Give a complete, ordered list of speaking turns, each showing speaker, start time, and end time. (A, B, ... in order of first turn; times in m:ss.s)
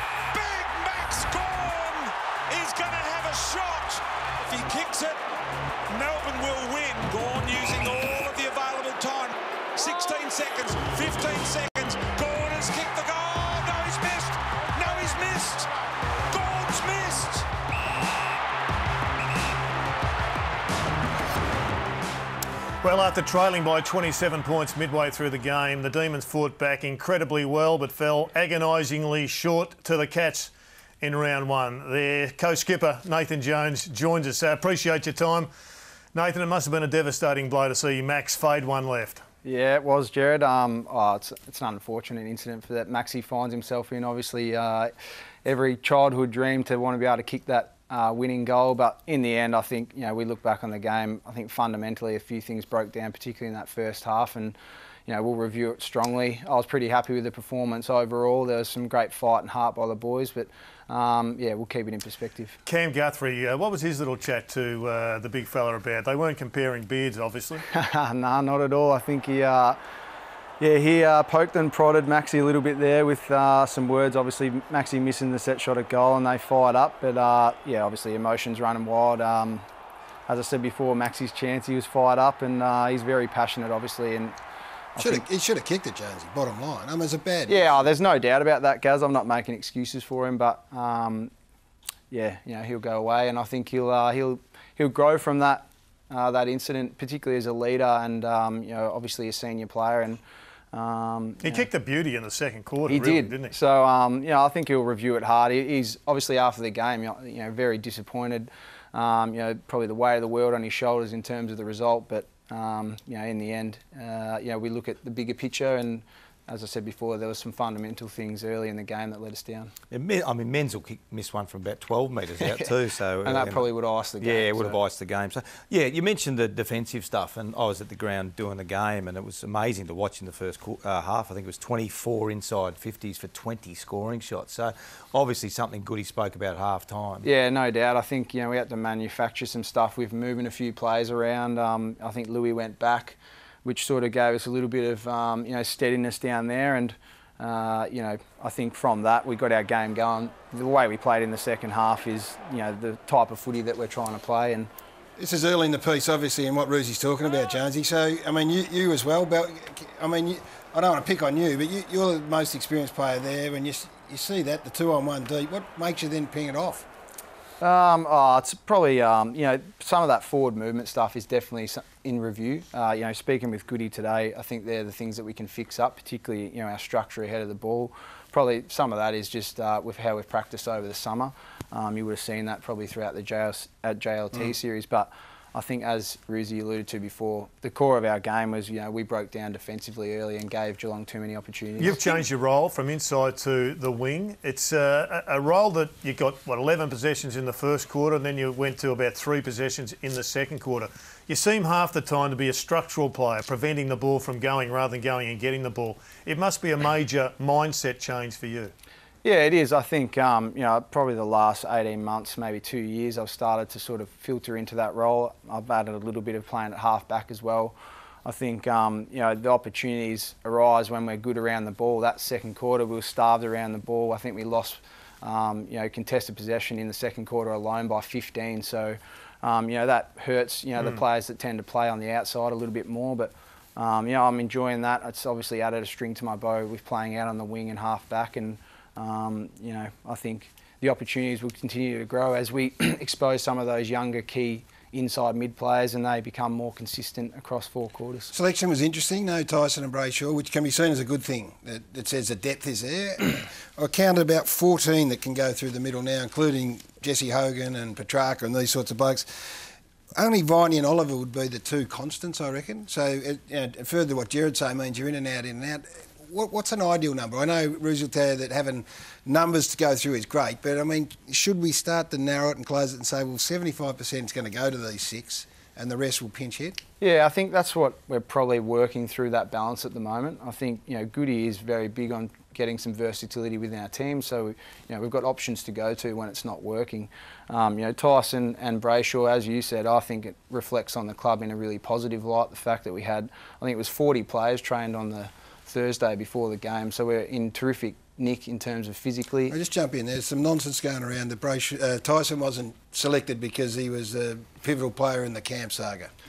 0:00.3-0:05.2 A
0:06.0-0:15.6 A
0:16.3-0:17.4 A
0:22.8-0:35.5 B
0:36.2-0:39.2 B
0:39.4-0:44.9 C
0:45.4-1:02.6 C
1:02.7-1:07.6 B
1:07.7-1:09.8 C
1:10.6-1:19.6 C
1:20.3-1:24.4 C
1:25.0-1:25.2 C
1:25.0-1:27.7 D
1:27.5-1:31.3 C
1:32.1-1:40.2 C
1:40.7-1:41.6 C
1:41.4-1:43.5 B
1:42.9-1:59.7 C
1:59.9-2:17.2 E
2:02.4-2:02.7 C
2:03.2-2:04.8 C
2:17.2-2:34.7 C
2:35.2-2:46.9 D
2:47.6-3:12.0 C
3:11.8-3:28.7 B
3:29.2-4:08.3 C
4:08.3-4:19.3 D
4:20.2-4:36.8 D
4:37.0-4:59.6 C
4:59.5-5:06.1 D